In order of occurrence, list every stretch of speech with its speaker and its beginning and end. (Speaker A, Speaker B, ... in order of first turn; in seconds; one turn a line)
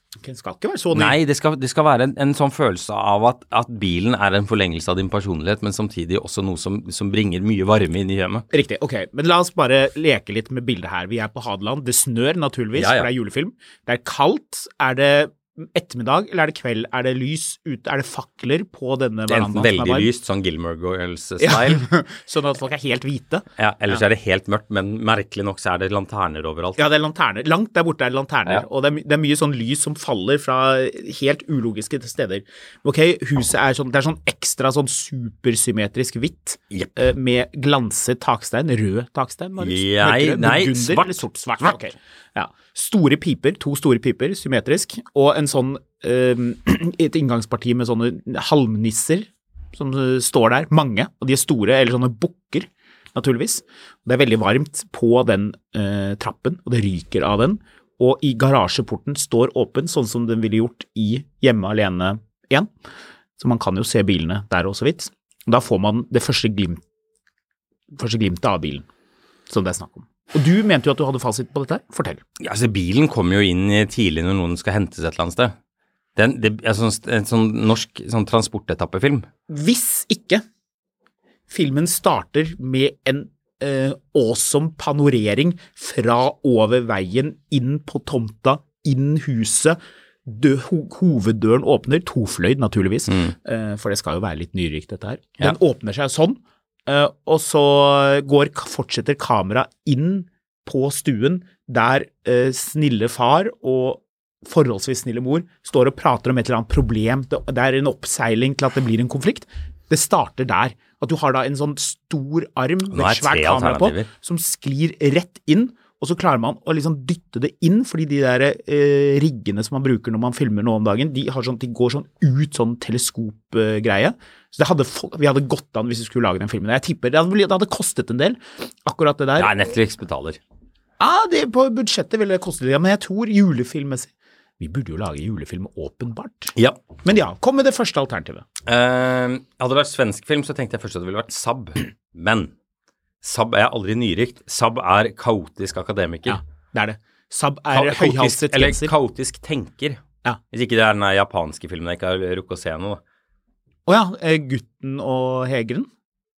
Speaker A: 0.2-1.2
Speaker B: 0.9-8.5
Speaker A: 8.5-20.1
Speaker B: 12.8-13.1
Speaker B: 19.3-21.9
Speaker A: 21.4-24.0
Speaker B: 23.6-26.8
Speaker A: 26.8-62.7
Speaker B: 39.6-41.7
Speaker A: 63.4-66.8
Speaker A: 67.9-68.9
Speaker A: 69.5-72.2
Speaker B: 72.4-75.5
Speaker B: 76.2-79.3
Speaker A: 79.5-80.4
Speaker A: 81.5-129.5
Speaker B: 112.9-114.1
Speaker B: 129.4-130.4
Speaker A: 131.0-138.4
Speaker B: 138.7-142.5
Speaker B: 143.2-146.4
Speaker A: 146.3-148.9
Speaker B: 147.7-150.0
Speaker B: 150.5-153.0
Speaker A: 153.9-155.9